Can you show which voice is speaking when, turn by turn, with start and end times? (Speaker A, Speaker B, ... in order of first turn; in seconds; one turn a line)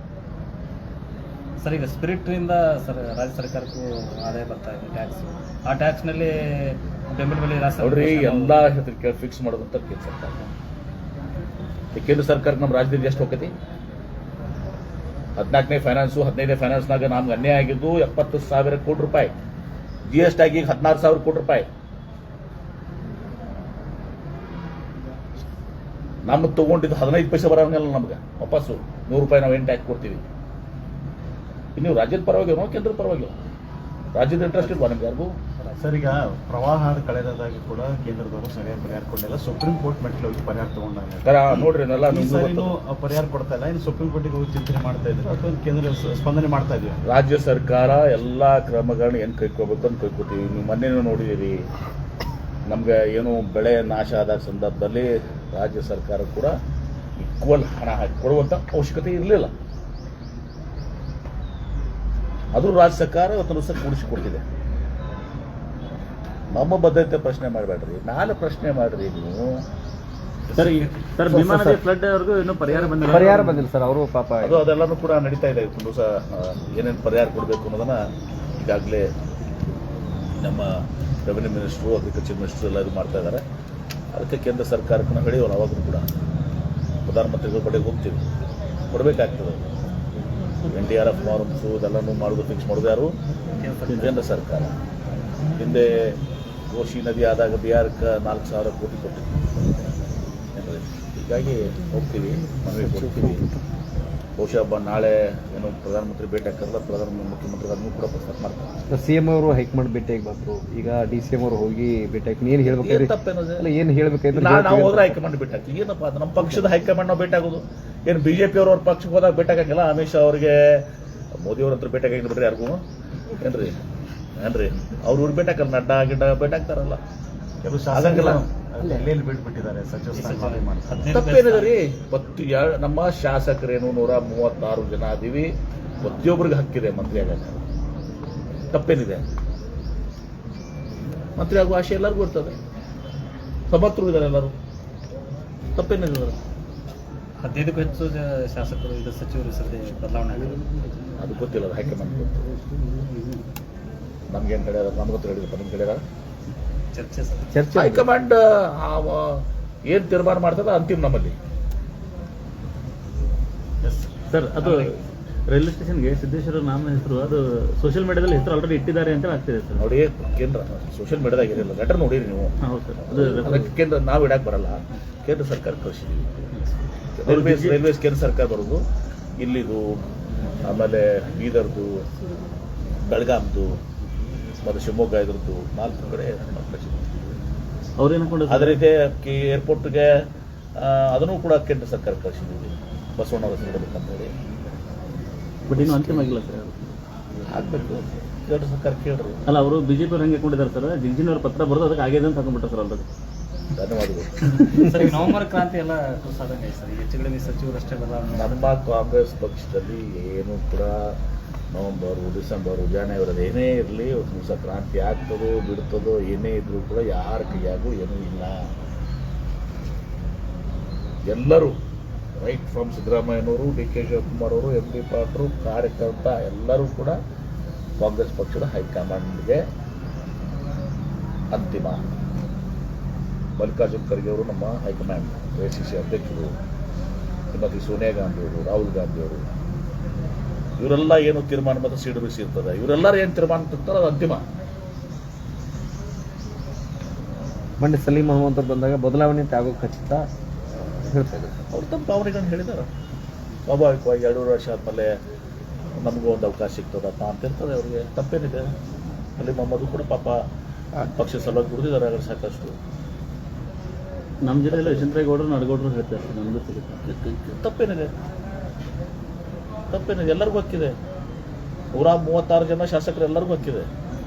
Speaker A: 1.6-8.7
Speaker B: 7.8-10.4
Speaker B: 11.9-13.5
Speaker B: 15.4-19.3
Speaker B: 20.1-21.7
Speaker B: 26.2-30.2
Speaker B: 31.8-33.4
Speaker B: 34.1-35.4
Speaker A: 35.6-36.0
Speaker C: 35.8-47.0
Speaker B: 41.2-42.7
Speaker B: 47.0-51.6
Speaker B: 52.7-56.5
Speaker B: 57.2-59.5
Speaker B: 62.5-64.4
Speaker B: 66.5-69.6
Speaker C: 70.5-71.1
Speaker D: 70.6-73.6
Speaker E: 71.3-71.8
Speaker E: 73.0-74.6
Speaker B: 74.4-78.0
Speaker B: 78.6-79.1
Speaker B: 80.4-83.4
Speaker B: 84.1-86.1
Speaker B: 87.0-88.2
Speaker B: 88.9-89.7
Speaker B: 90.7-93.1
Speaker A: 93.6-94.1
Speaker B: 94.0-94.7
Speaker B: 95.6-96.2
Speaker B: 96.7-99.7
Speaker B: 100.5-103.5
Speaker E: 102.9-103.4
Speaker B: 104.4-108.7
Speaker E: 108.9-115.2
Speaker B: 112.7-113.7
Speaker B: 114.3-120.9
Speaker B: 121.4-122.8
Speaker B: 123.4-123.8
Speaker B: 124.4-127.0
Speaker C: 127.6-131.1
Speaker B: 127.9-128.4
Speaker E: 128.8-129.1
Speaker A: 130.1-131.8
Speaker B: 131.1-137.6
Speaker B: 138.7-139.2
Speaker B: 141.4-142.6
Speaker B: 143.7-144.5
Speaker B: 145.8-146.4
Speaker A: 147.4-150.7
Speaker B: 151.2-152.5
Speaker B: 154.3-156.0
Speaker A: 156.9-157.4
Speaker E: 157.5-158.1
Speaker B: 157.7-161.3
Speaker C: 163.8-164.1
Speaker D: 164.3-164.9
Speaker B: 164.6-164.9
Speaker D: 165.5-169.9
Speaker B: 169.8-172.5
Speaker D: 172.6-173.7
Speaker B: 173.1-176.5
Speaker B: 177.2-178.8
Speaker D: 177.2-177.8
Speaker B: 179.4-180.0
Speaker B: 180.6-182.0
Speaker B: 183.1-183.8
Speaker B: 184.6-187.1
Speaker D: 188.0-188.8
Speaker B: 188.5-190.1
Speaker B: 190.8-194.3
Speaker D: 195.7-196.9
Speaker B: 195.8-196.3
Speaker B: 197.5-199.4
Speaker D: 199.5-203.1
Speaker B: 203.7-204.4
Speaker A: 204.7-208.8
Speaker B: 208.3-211.2
Speaker B: 211.7-218.7
Speaker B: 221.3-221.8
Speaker B: 222.4-227.2
Speaker B: 228.0-229.7
Speaker B: 231.5-232.0
Speaker B: 233.6-236.6
Speaker B: 237.5-239.4
Speaker B: 240.8-244.4
Speaker E: 247.8-250.3
Speaker E: 251.0-251.6
Speaker B: 251.7-252.9
Speaker B: 253.7-255.1
Speaker B: 256.0-258.7
Speaker B: 259.4-260.4
Speaker B: 261.0-262.8
Speaker D: 264.4-267.3
Speaker B: 264.7-265.1
Speaker B: 267.3-268.1
Speaker B: 269.9-270.9
Speaker B: 271.9-273.9